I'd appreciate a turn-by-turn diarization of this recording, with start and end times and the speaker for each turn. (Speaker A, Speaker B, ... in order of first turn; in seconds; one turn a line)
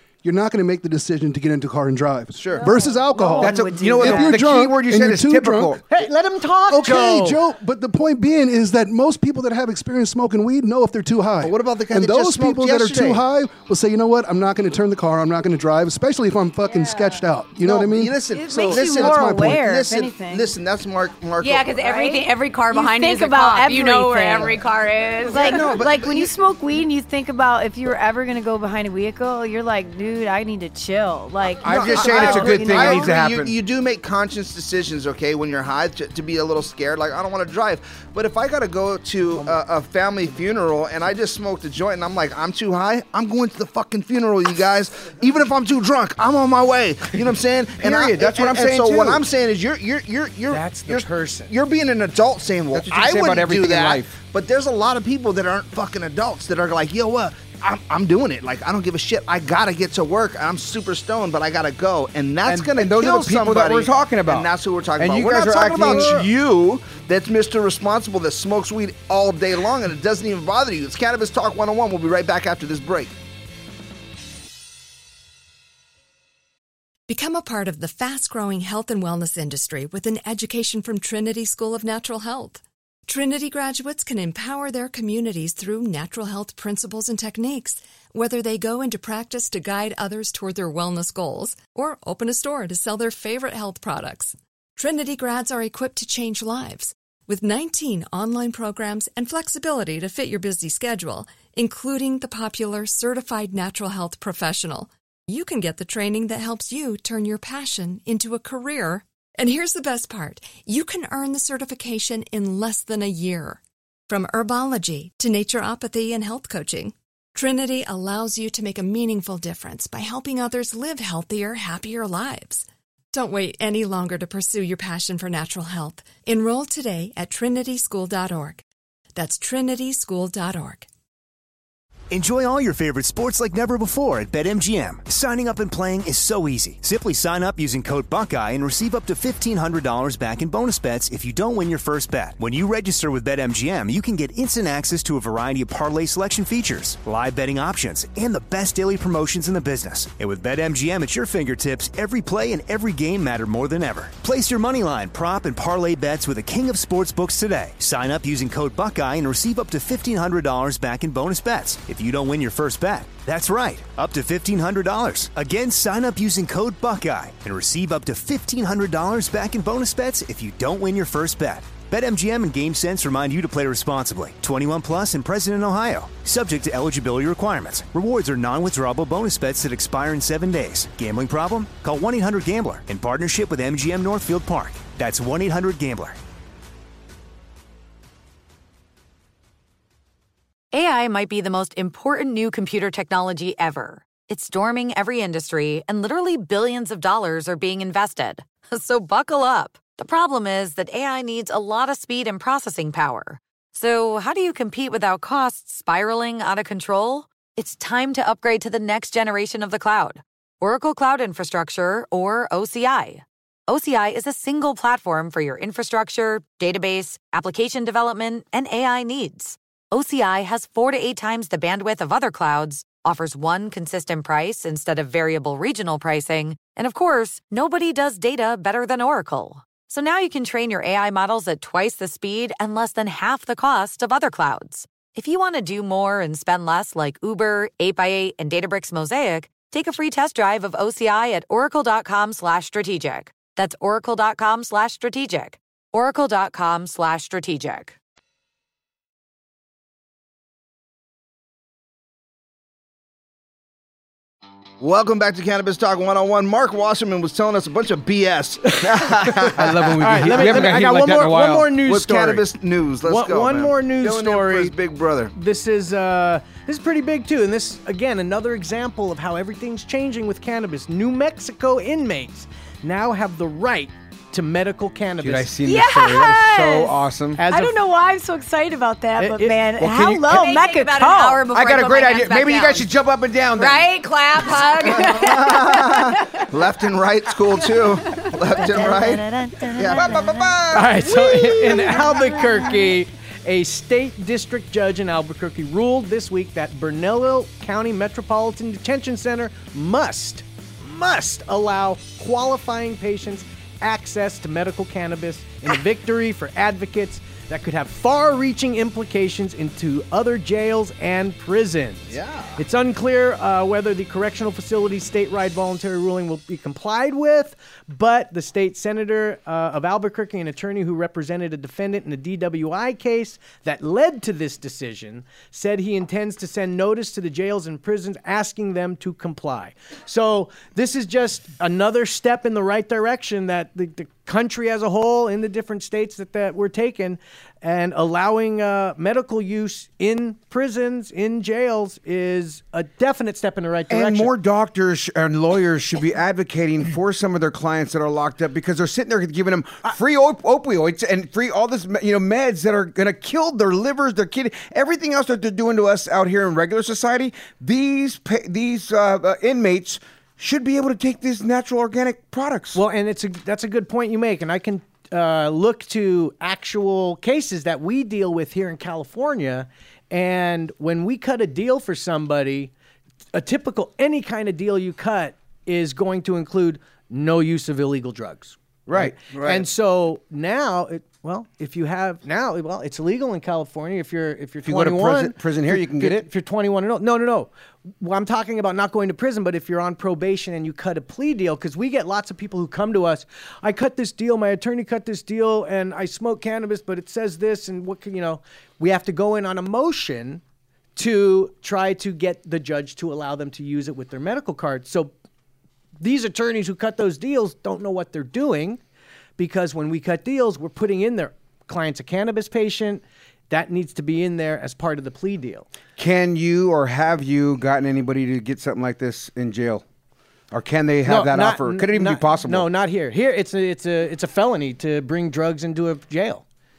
Speaker A: 0.2-5.8
Speaker B: 2.3-2.7
Speaker C: 2.5-4.4
Speaker D: 3.4-5.8
Speaker E: 5.9-7.4
Speaker A: 6.7-18.2
Speaker B: 11.4-13.2
Speaker C: 16.7-17.0
Speaker B: 17.6-21.8
Speaker C: 18.2-20.5
Speaker A: 18.8-19.6
Speaker F: 21.4-25.8
Speaker C: 21.7-24.6
Speaker C: 25.2-33.2
Speaker B: 25.4-26.3
Speaker D: 31.6-33.6
Speaker B: 31.6-73.1
Speaker D: 47.8-49.2
Speaker E: 50.5-51.5
Speaker D: 52.7-54.1
Speaker D: 62.5-66.2
Speaker E: 65.7-66.3
Speaker G: 77.1-128.6
Speaker G: 129.1-130.9
Speaker H: 132.1-186.2
Speaker I: 190.7-248.0
Speaker B: 254.8-260.8
Speaker D: 259.5-261.7
Speaker E: 260.0-262.5
Speaker B: 261.8-265.3
Speaker E: 263.0-264.7
Speaker E: 265.3-275.5
Speaker D: 275.2-277.4
Speaker C: 275.6-276.9
Speaker E: 277.4-277.8
Speaker C: 277.5-281.4
Speaker E: 279.2-279.6
Speaker D: 279.8-280.3
Speaker F: 280.2-282.9
Speaker D: 281.5-283.9
Speaker F: 283.5-286.4
Speaker B: 285.0-290.1
Speaker C: 288.6-290.6
Speaker D: 289.8-291.9
Speaker E: 290.7-344.3
Speaker C: 291.2-292.8
Speaker B: 312.1-312.6
Speaker D: 343.9-362.8
Speaker E: 362.7-372.7
Speaker E: 373.3-387.5
Speaker D: 378.9-379.1
Speaker B: 379.3-379.6
Speaker D: 384.6-386.3
Speaker E: 388.0-400.4
Speaker E: 400.9-405.1
Speaker E: 406.0-408.8
Speaker E: 409.4-415.6
Speaker D: 416.0-419.8
Speaker D: 420.5-422.7
Speaker E: 421.0-426.4